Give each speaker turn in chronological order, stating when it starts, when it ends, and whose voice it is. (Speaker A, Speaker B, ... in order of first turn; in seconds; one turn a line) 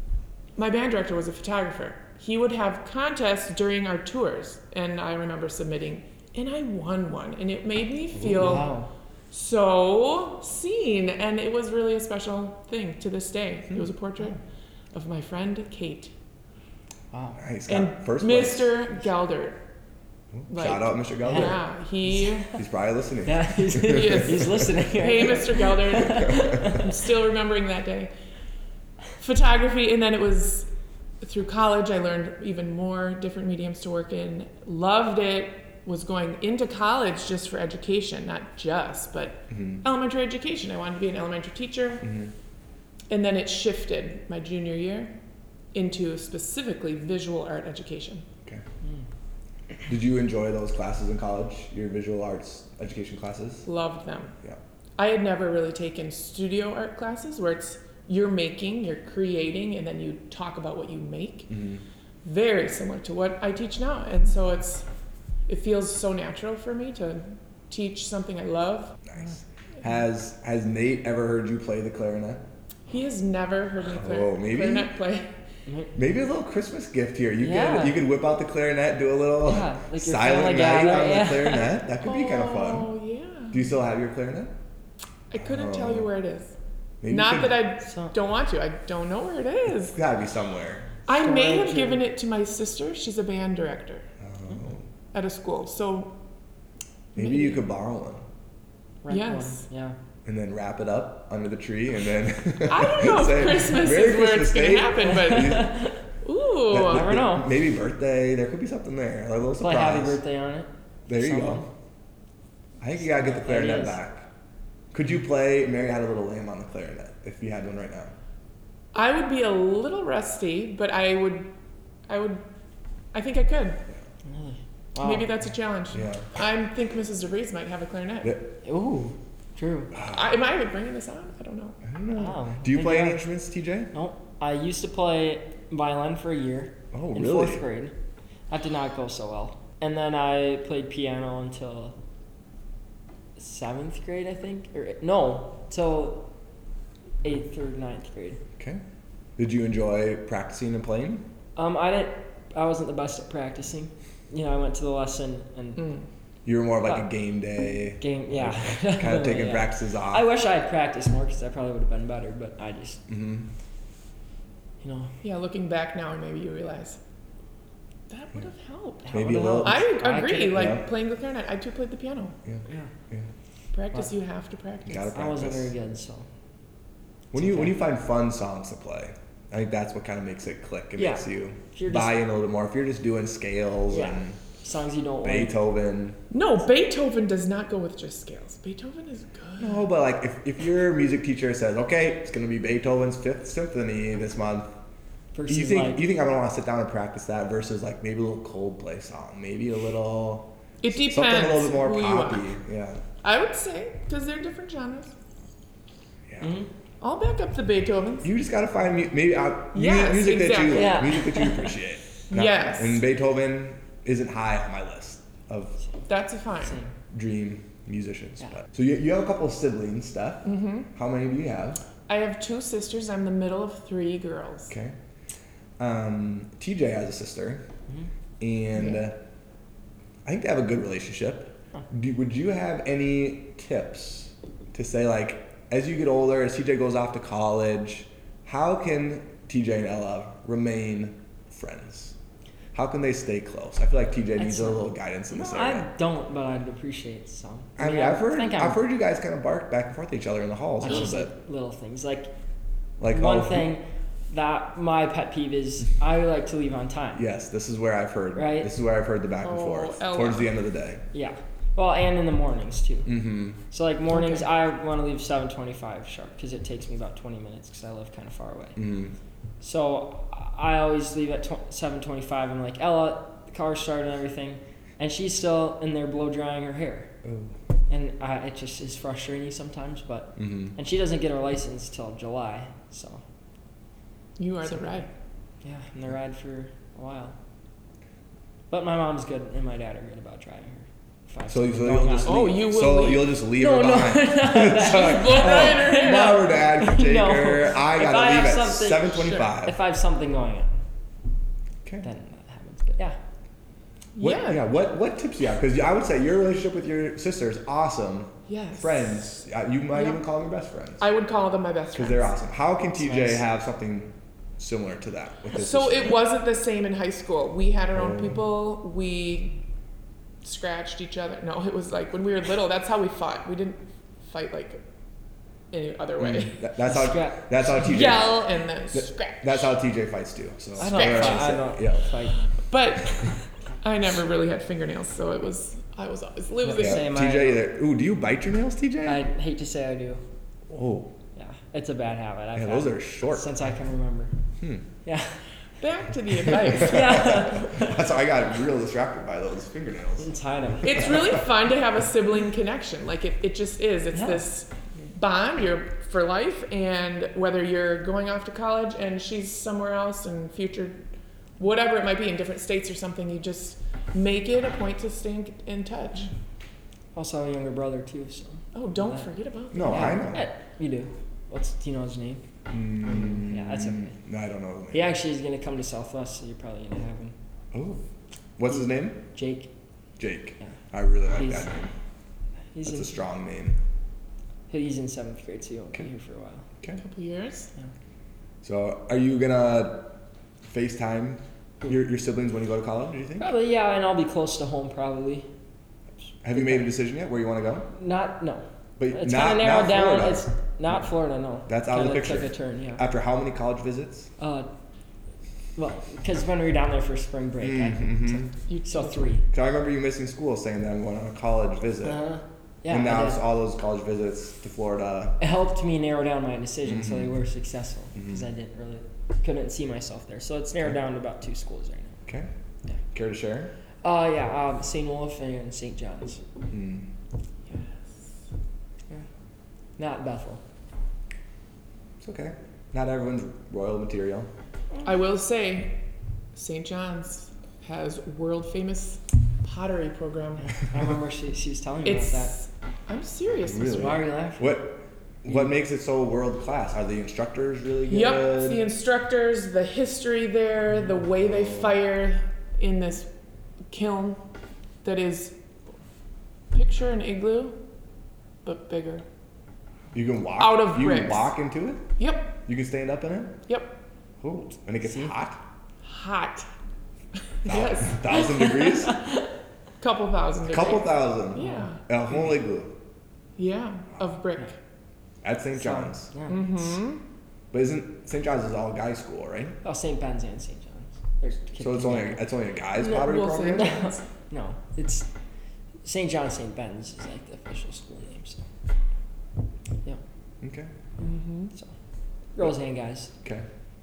Speaker A: 0.6-8.7
Speaker B: 8.2-8.6
Speaker C: 8.2-8.9
Speaker A: 9.3-14.4
Speaker A: 14.9-16.1
Speaker C: 17.1-17.4
Speaker B: 17.4-18.9
Speaker A: 17.7-19.6
Speaker B: 20.3-21.6
Speaker A: 20.5-22.5
Speaker C: 21.2-21.6
Speaker C: 22.2-22.5
Speaker B: 22.5-24.7
Speaker C: 23.2-26.9
Speaker A: 23.9-28.1
Speaker A: 29.2-30.7
Speaker A: 31.2-42.1
Speaker B: 39.5-39.8
Speaker B: 42.0-42.3
Speaker A: 43.1-45.1
Speaker A: 45.7-48.2
Speaker B: 49.9-53.7
Speaker A: 53.6-54.4
Speaker A: 55.0-61.5
Speaker B: 61.5-61.8
Speaker A: 62.2-64.8
Speaker A: 65.5-69.0
Speaker B: 69.1-72.4
Speaker A: 72.9-75.3
Speaker B: 73.8-74.9
Speaker C: 75.7-75.9
Speaker B: 76.0-82.9
Speaker C: 77.4-78.0
Speaker C: 79.4-81.7
Speaker A: 82.0-83.6
Speaker B: 83.5-84.5
Speaker A: 85.3-86.5
Speaker B: 85.4-86.1
Speaker B: 87.0-87.7
Speaker A: 87.1-90.0
Speaker C: 87.8-88.1
Speaker B: 89.7-90.9
Speaker A: 91.1-94.1
Speaker C: 91.1-92.0
Speaker B: 94.2-94.8
Speaker A: 95.1-96.2
Speaker A: 97.2-97.6
Speaker B: 97.2-98.2
Speaker C: 99.0-100.0
Speaker A: 99.1-99.6
Speaker B: 100.2-105.7
Speaker A: 102.7-107.1
Speaker C: 105.1-106.0
Speaker B: 106.7-110.2
Speaker C: 106.8-107.5
Speaker C: 109.6-111.7
Speaker B: 111.1-111.6
Speaker B: 112.8-114.3
Speaker C: 113.1-114.0
Speaker B: 114.9-118.1
Speaker A: 118.9-121.5
Speaker A: 122.1-122.4
Speaker A: 123.1-123.8
Speaker C: 124.2-125.3
Speaker A: 125.0-128.4
Speaker B: 125.9-126.3
Speaker B: 128.2-128.5
Speaker C: 128.6-129.9
Speaker B: 129.9-130.3
Speaker A: 130.1-131.8
Speaker B: 131.8-133.9
Speaker C: 132.1-133.2
Speaker C: 133.9-137.9
Speaker B: 136.9-137.6
Speaker C: 138.5-142.0
Speaker C: 143.4-146.3
Speaker C: 147.2-148.4
Speaker B: 149.4-151.3
Speaker C: 151.6-155.9
Speaker A: 155.8-156.0
Speaker B: 156.4-160.3
Speaker C: 158.0-163.0
Speaker B: 163.1-163.5
Speaker C: 164.8-165.1
Speaker A: 165.2-167.0
Speaker A: 168.1-169.0
Speaker C: 169.0-170.7
Speaker B: 169.1-169.9
Speaker A: 169.6-172.4
Speaker B: 170.5-170.8
Speaker B: 172.4-173.3
Speaker A: 173.7-175.1
Speaker B: 174.8-175.7
Speaker C: 175.1-176.2
Speaker B: 177.3-184.4
Speaker C: 177.3-177.7
Speaker C: 181.0-182.2
Speaker C: 183.9-185.6
Speaker B: 185.2-186.2
Speaker A: 186.3-189.8
Speaker B: 189.6-194.7
Speaker C: 195.3-196.0
Speaker B: 195.5-203.0
Speaker A: 200.8-202.5
Speaker A: 203.2-205.1
Speaker C: 206.4-206.7
Speaker A: 207.0-208.3
Speaker B: 208.2-215.8
Speaker A: 209.7-211.1
Speaker C: 210.7-211.8
Speaker A: 212.3-213.0
Speaker A: 216.1-216.8
Speaker C: 216.6-216.9
Speaker B: 217.1-221.8
Speaker A: 220.4-220.9
Speaker A: 222.1-224.7
Speaker B: 224.7-224.9
Speaker B: 225.8-227.6
Speaker B: 228.4-229.2
Speaker B: 230.2-242.2
Speaker B: 242.7-245.9
Speaker C: 244.4-248.8
Speaker B: 247.8-251.3
Speaker C: 250.8-252.3
Speaker B: 253.0-253.7
Speaker C: 253.1-257.2
Speaker B: 257.1-261.0
Speaker C: 258.3-258.7
Speaker A: 259.4-260.5
Speaker C: 261.1-268.8
Speaker B: 263.1-263.6
Speaker A: 264.1-264.4
Speaker B: 268.8-269.1
Speaker C: 269.6-277.1
Speaker B: 277.2-277.5
Speaker C: 277.9-283.2
Speaker B: 280.4-280.7
Speaker A: 284.4-285.1
Speaker C: 285.6-287.4
Speaker C: 288.7-292.4
Speaker B: 291.5-299.8
Speaker A: 292.2-293.4
Speaker C: 293.5-300.8
Speaker A: 294.6-296.6
Speaker A: 299.1-299.5
Speaker C: 302.0-303.2
Speaker A: 304.1-304.6
Speaker B: 304.2-311.1
Speaker A: 308.5-309.4
Speaker A: 309.9-310.2
Speaker A: 311.0-312.3
Speaker B: 311.9-316.2
Speaker C: 313.0-313.4
Speaker A: 315.5-319.6
Speaker B: 317.9-318.4
Speaker A: 320.4-324.8
Speaker A: 325.7-326.6
Speaker B: 326.2-332.1
Speaker C: 326.8-328.0
Speaker A: 327.8-329.7
Speaker C: 330.8-332.5
Speaker A: 330.8-331.6
Speaker A: 332.6-337.1
Speaker C: 336.6-337.6
Speaker B: 336.8-339.2
Speaker C: 339.0-340.2
Speaker B: 340.7-341.1
Speaker C: 341.4-344.3
Speaker B: 342.5-343.5
Speaker C: 345.0-345.4
Speaker A: 345.8-347.5
Speaker B: 346.5-350.3
Speaker C: 346.6-348.1
Speaker C: 350.2-351.3
Speaker B: 350.8-351.4
Speaker A: 350.8-361.0
Speaker C: 354.1-354.4
Speaker A: 361.6-366.3
Speaker C: 367.1-369.3
Speaker A: 368.7-370.3
Speaker B: 369.7-370.5
Speaker C: 369.8-372.4
Speaker B: 372.7-375.1
Speaker C: 372.9-374.2
Speaker C: 374.9-377.3
Speaker B: 377.7-378.0
Speaker B: 378.6-379.2
Speaker C: 379.3-379.7
Speaker B: 380.2-381.9
Speaker C: 381.3-381.7
Speaker C: 382.7-383.2
Speaker B: 382.8-383.8
Speaker C: 384.7-386.6
Speaker A: 387.0-387.7
Speaker B: 388.6-390.1
Speaker B: 390.6-393.5
Speaker C: 393.4-395.5
Speaker B: 396.4-397.9
Speaker C: 396.5-396.9
Speaker C: 397.9-403.0
Speaker B: 399.0-400.4
Speaker B: 401.7-404.3
Speaker C: 404.4-404.7
Speaker C: 405.8-409.4
Speaker B: 407.6-408.5
Speaker A: 408.7-409.3
Speaker B: 409.5-412.2
Speaker C: 412.0-413.4
Speaker B: 412.9-415.4
Speaker C: 415.4-422.2
Speaker B: 416.8-417.4
Speaker B: 418.1-418.4
Speaker B: 423.1-423.7
Speaker C: 424.0-426.4
Speaker B: 426.7-427.1
Speaker C: 430.0-430.6
Speaker B: 432.2-434.5
Speaker A: 435.0-436.0
Speaker A: 436.5-440.7
Speaker C: 440.6-442.5
Speaker A: 442.0-444.2
Speaker B: 443.6-448.9
Speaker C: 443.8-444.8
Speaker A: 448.1-453.3
Speaker B: 451.4-451.9
Speaker A: 453.9-454.4
Speaker A: 455.0-455.5
Speaker A: 456.7-457.8
Speaker A: 458.6-459.2
Speaker B: 460.1-463.6
Speaker A: 460.6-461.5
Speaker A: 462.2-462.5
Speaker A: 463.7-463.9
Speaker B: 464.4-465.6
Speaker A: 466.0-466.7
Speaker A: 467.6-469.0
Speaker B: 467.6-469.3
Speaker A: 470.0-472.0
Speaker B: 470.6-472.9
Speaker C: 471.6-471.9
Speaker A: 473.6-474.7
Speaker B: 475.4-476.3
Speaker C: 475.8-476.7
Speaker A: 476.5-477.2
Speaker B: 477.7-479.8
Speaker C: 479.8-485.3
Speaker B: 481.8-483.9
Speaker A: 483.1-484.2
Speaker C: 486.0-488.7
Speaker B: 490.6-490.9
Speaker A: 491.2-491.7
Speaker C: 492.6-493.3